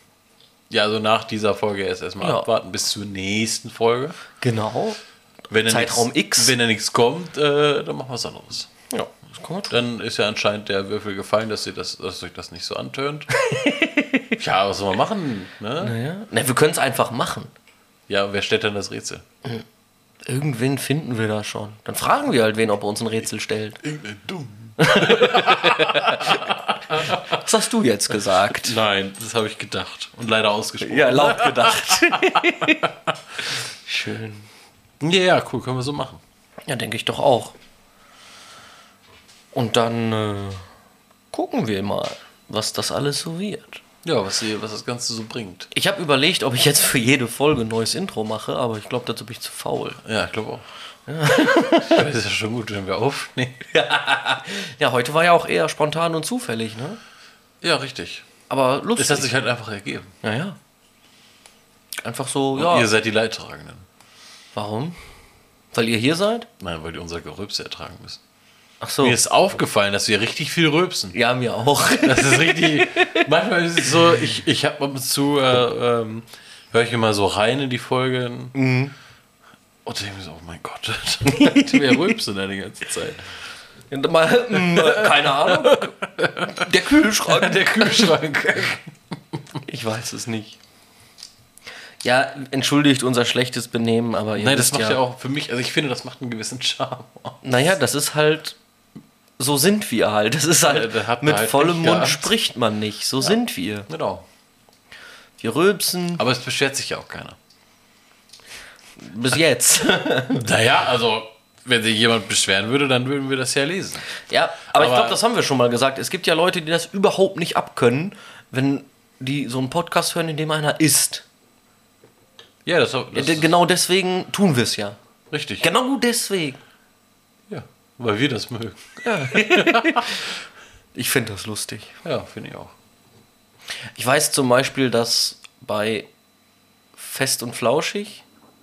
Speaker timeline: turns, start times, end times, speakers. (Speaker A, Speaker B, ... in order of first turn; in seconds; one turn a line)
Speaker A: 0.7-4.2
Speaker B: 2.2-2.5
Speaker B: 4.4-5.0
Speaker A: 5.5-8.7
Speaker B: 5.6-6.5
Speaker B: 8.9-9.7
Speaker A: 9.7-13.3
Speaker B: 13.3-14.3
Speaker A: 14.4-15.9
Speaker B: 15.8-17.5
Speaker A: 18.1-19.2
Speaker B: 20.2-23.8
Speaker A: 23.8-27.4
Speaker B: 24.8-28.8
Speaker A: 28.4-32.9
Speaker B: 30.8-32.9
Speaker B: 33.5-34.5
Speaker A: 35.0-36.2
Speaker B: 36.7-37.5
Speaker B: 39.5-40.6
Speaker B: 41.3-43.8
Speaker A: 44.0-45.7
Speaker B: 45.7-50.0
Speaker A: 50.0-50.6
Speaker B: 51.1-52.0
Speaker A: 51.8-53.6
Speaker B: 53.7-57.0
Speaker A: 57.6-58.3
Speaker B: 58.5-59.3
Speaker A: 59.0-60.1
Speaker B: 60.2-60.6
Speaker B: 62.0-62.9
Speaker A: 62.5-63.9
Speaker B: 64.5-65.0
Speaker B: 65.7-66.5
Speaker A: 66.6-68.2
Speaker B: 68.8-69.2
Speaker A: 69.0-71.2
Speaker B: 71.1-73.3
Speaker A: 72.0-78.5
Speaker B: 78.5-78.9
Speaker A: 79.8-83.3
Speaker B: 81.2-82.0
Speaker B: 83.9-88.1
Speaker A: 84.5-89.4
Speaker B: 89.6-90.6
Speaker B: 92.0-95.0
Speaker A: 94.3-97.4
Speaker B: 97.4-98.6
Speaker B: 99.4-103.9
Speaker A: 100.6-102.3
Speaker A: 103.9-104.2
Speaker B: 105.4-106.2
Speaker A: 106.2-107.4
Speaker B: 109.0-110.5
Speaker A: 110.3-114.1
Speaker B: 114.3-121.2
Speaker A: 114.7-115.2
Speaker A: 122.6-123.5
Speaker B: 123.1-125.0
Speaker A: 125.3-125.7
Speaker B: 125.6-126.6
Speaker A: 127.5-130.2
Speaker B: 129.0-130.3
Speaker B: 130.9-132.0
Speaker A: 132.0-132.7
Speaker B: 133.9-136.1
Speaker B: 136.9-138.2